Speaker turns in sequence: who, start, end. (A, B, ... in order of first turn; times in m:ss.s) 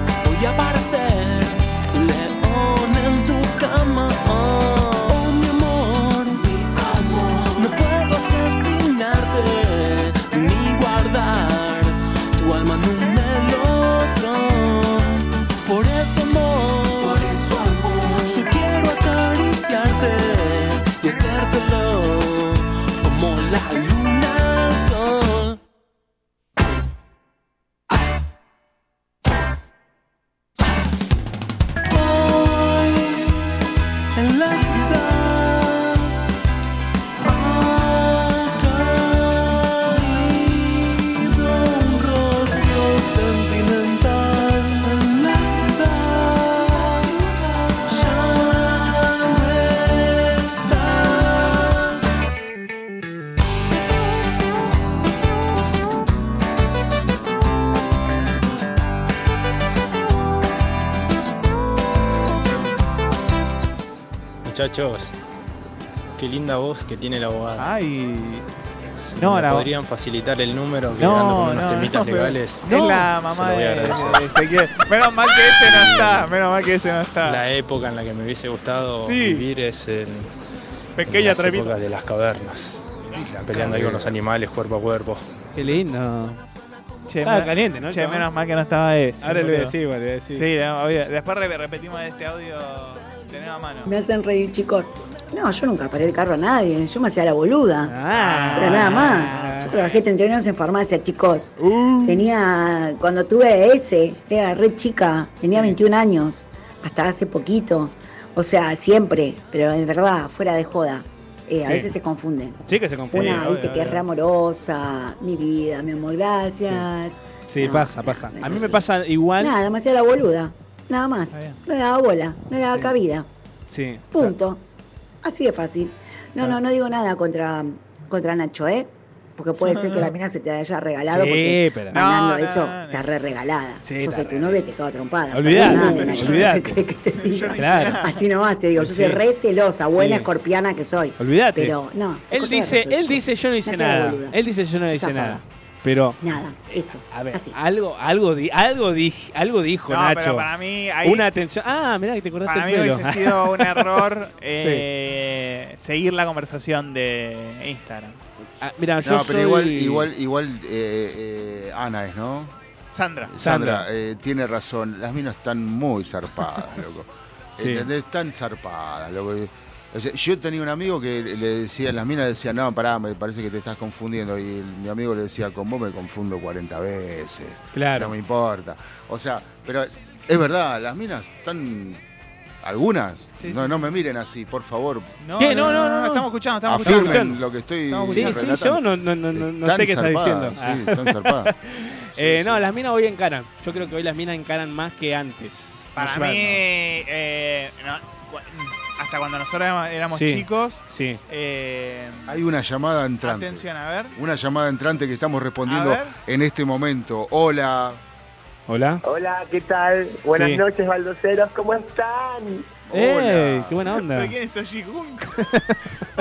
0:00.2-0:25.6 A
0:31.9-0:33.4 A
0:34.2-0:36.1 A
0:37.2-0:52.1 A
1:04.4-1:05.2 B
1:06.2-1:07.7 B
1:07.6-1:08.5 C
1:08.9-1:14.3 B
1:09.2-1:09.7 C
1:11.0-1:17.4 C
1:15.7-1:16.3 B
1:17.2-1:20.3 B
1:19.0-1:19.5 D
1:21.0-1:21.8 D
1:21.1-1:25.2 B
1:23.1-1:24.1 E
1:25.6-1:26.4 D
1:27.1-1:29.7 C
1:27.2-1:28.3 D
1:29.2-1:30.5 D
1:30.3-1:33.9 C
1:33.9-1:38.0 F
1:37.9-1:39.7 D
1:38.2-1:40.0 C
1:38.5-1:41.5 F
1:41.6-1:42.2 D
1:42.0-1:58.8 F
1:51.6-1:51.9 D
1:52.7-1:53.5 D
1:53.1-1:54.0 C
1:57.5-1:59.6 D
1:59.4-2:03.3 F
2:01.3-2:01.6 C
2:03.7-2:04.3 D
2:04.1-2:04.6 F
2:05.2-2:24.4 F
2:11.1-2:12.0 D
2:11.9-2:13.1 C
2:13.8-2:14.6 D
2:15.3-2:16.8 D
2:15.6-2:16.5 C
2:17.1-2:18.3 C
2:17.6-2:18.1 D
2:18.8-2:19.2 D
2:19.9-2:20.3 D
2:21.2-2:21.8 D
2:22.3-2:26.2 D
2:24.9-2:25.4 F
2:26.2-2:27.6 F
2:27.1-2:30.5 D
2:29.9-2:31.3 C
2:31.0-2:33.9 D
2:32.5-2:38.2 C
2:34.6-2:34.8 D
2:38.6-2:40.1 D
2:39.0-2:42.5 E
2:42.9-2:43.3 C
2:43.3-3:02.0 E
2:43.4-2:43.9 D
2:47.6-2:47.9 D
2:57.7-2:58.1 D
3:02.6-3:05.8 E
3:05.2-3:07.3 C
3:05.4-3:06.3 D
3:06.7-3:11.5 E
3:06.8-3:07.4 D
3:07.9-3:08.5 C
3:08.0-3:16.6 D
3:12.2-3:12.6 E
3:16.0-3:22.4 C
3:20.1-3:21.2 D
3:22.3-3:28.0 E
3:23.2-3:24.1 C
3:25.6-3:26.1 C
3:28.7-3:29.0 D
3:29.0-3:32.7 G
3:30.3-3:30.6 D
3:32.9-3:33.8 E
3:32.9-3:34.3 D
3:34.0-3:35.3 C
3:35.5-3:35.8 D